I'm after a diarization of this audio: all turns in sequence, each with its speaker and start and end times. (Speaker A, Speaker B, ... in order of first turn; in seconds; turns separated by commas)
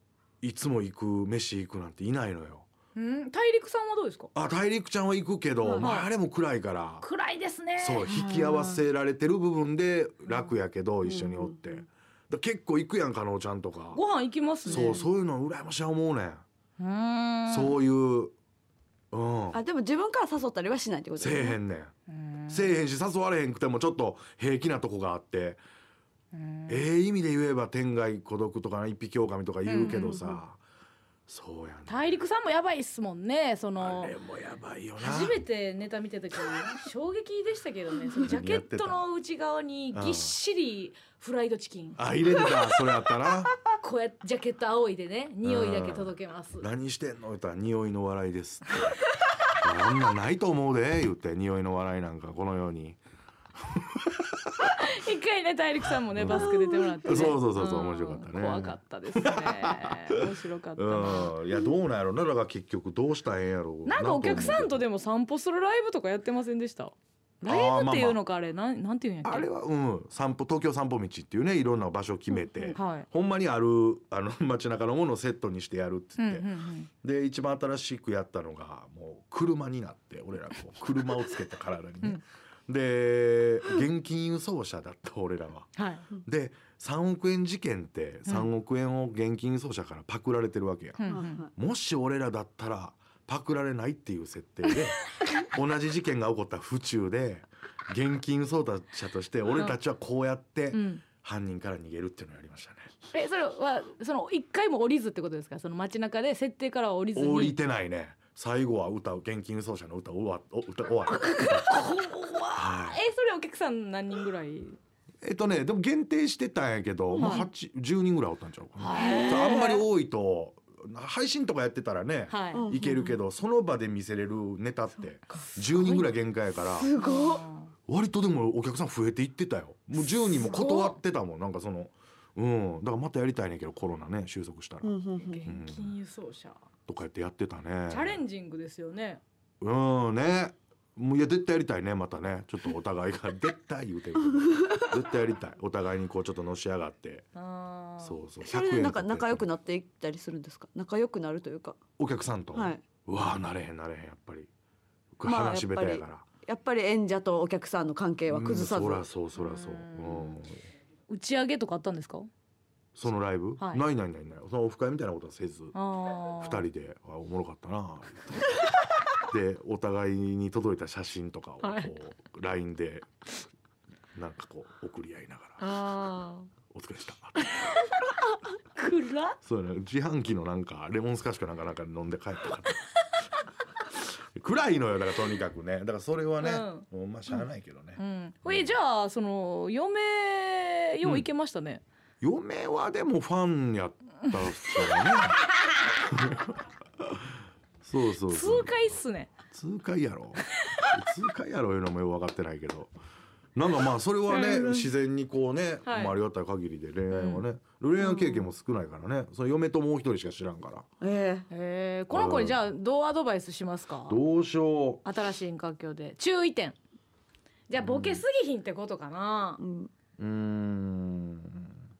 Speaker A: 0.4-2.7, Speaker B: 2.9-4.3, Speaker A: 4.3-7.0, Speaker C: 5.6-5.9, Speaker B: 5.8-6.1, Speaker B: 7.0-8.1, Speaker A: 7.8-14.0, Speaker C: 8.0-8.8, Speaker C: 11.0-11.6, Speaker B: 13.9-15.1, Speaker A: 14.7-16.4, Speaker C: 14.7-15.1, Speaker B: 16.8-17.8, Speaker A: 17.5-18.3, Speaker A: 19.1-19.6, Speaker C: 19.5-21.6, Speaker A: 21.2-21.9, Speaker B: 22.1-22.8, Speaker A: 22.5-25.6, Speaker B: 26.3-26.8, Speaker A: 26.7-30.6, Speaker B: 29.6-30.2, Speaker C: 29.8-30.4, Speaker A: 31.3-32.2, Speaker B: 31.9-34.1, Speaker A: 33.8-35.4, Speaker B: 35.0-42.0, Speaker A: 36.4-36.7, Speaker A: 38.2-39.0, Speaker A: 39.9-40.4, Speaker A: 42.0-43.5, Speaker B: 43.8-46.7, Speaker A: 45.4-49.0, Speaker A: 49.5-53.0, Speaker A: 53.7-54.5, Speaker B: 54.8-61.4, Speaker A: 56.1-56.5, Speaker C: 56.3-57.1, Speaker A: 57.0-60.2, Speaker A: 60.8-64.8, Speaker B: 63.9-69.5, Speaker A: 67.5-68.2, Speaker A: 69.2-76.5, Speaker C: 72.4-72.7, Speaker B: 72.7-73.1, Speaker B: 76.2-76.9, Speaker A: 77.0-103.0, Speaker B: 85.8-86.1, Speaker B: 91.0-91.5, Speaker C: 91.0-91.5, Speaker B: 99.4-99.8, Speaker B: 100.7-101.0, Speaker B: 103.1-107.5, Speaker A: 107.1-111.8, Speaker B: 111.4-114.8, Speaker A: 112.5-113.0, Speaker A: 115.2-126.9, Speaker C: 117.1-117.5, Speaker B: 117.2-117.5, Speaker B: 118.8-119.8, Speaker C: 118.9-119.8, Speaker B: 122.3-122.7, Speaker C: 122.5-123.2, Speaker C: 125.0-126.0, Speaker C: 126.7-127.4, Speaker B: 126.9-127.7, Speaker A: 127.9-134.9, Speaker B: 130.0-131.0, Speaker C: 134.8-135.5, Speaker B: 135.2-136.6, Speaker A: 135.4-135.9, Speaker A: 136.9-138.2, Speaker B: 137.9-139.2, Speaker A: 139.6-147.3, Speaker B: 147.3-148.2, Speaker A: 148.0-149.5, Speaker C: 148.4-151.8, Speaker A: 152.0-154.5, Speaker C: 152.5-152.8, Speaker A: 155.2-156.2, Speaker C: 155.2-159.0, Speaker A: 158.3-160.6, Speaker B: 159.4-160.4, Speaker B: 161.1-162.3, Speaker A: 162.9-165.8, Speaker B: 163.6-163.8, Speaker B: 165.7-166.6, Speaker A: 166.4-168.6, Speaker A: 169.2-173.1, Speaker B: 171.6-171.9, Speaker A: 174.1-175.6, Speaker B: 175.6-176.5, Speaker A: 176.7-177.6, Speaker B: 177.4-178.0, Speaker B: 178.7-179.4, Speaker A: 179.4-182.8, Speaker A: 184.0-188.8, Speaker B: 186.4-186.8, Speaker B: 188.0-191.8, Speaker A: 191.0-191.3, Speaker A: 192.2-195.4, Speaker B: 194.7-194.9, Speaker A: 196.1-197.2, Speaker A: 197.8-199.0, Speaker B: 198.3-199.3, Speaker A: 199.5-202.9, Speaker A: 203.5-210.8, Speaker C: 204.3-204.9, Speaker B: 205.8-206.1, Speaker B: 207.1-207.4, Speaker C: 208.0-208.5, Speaker C: 211.0-211.5, Speaker B: 211.5-214.2, Speaker A: 212.1-212.6, Speaker A: 214.1-215.0, Speaker B: 215.0-216.8, Speaker B: 217.7-219.6, Speaker A: 217.8-218.2, Speaker C: 219.6-219.9, Speaker A: 220.2-221.7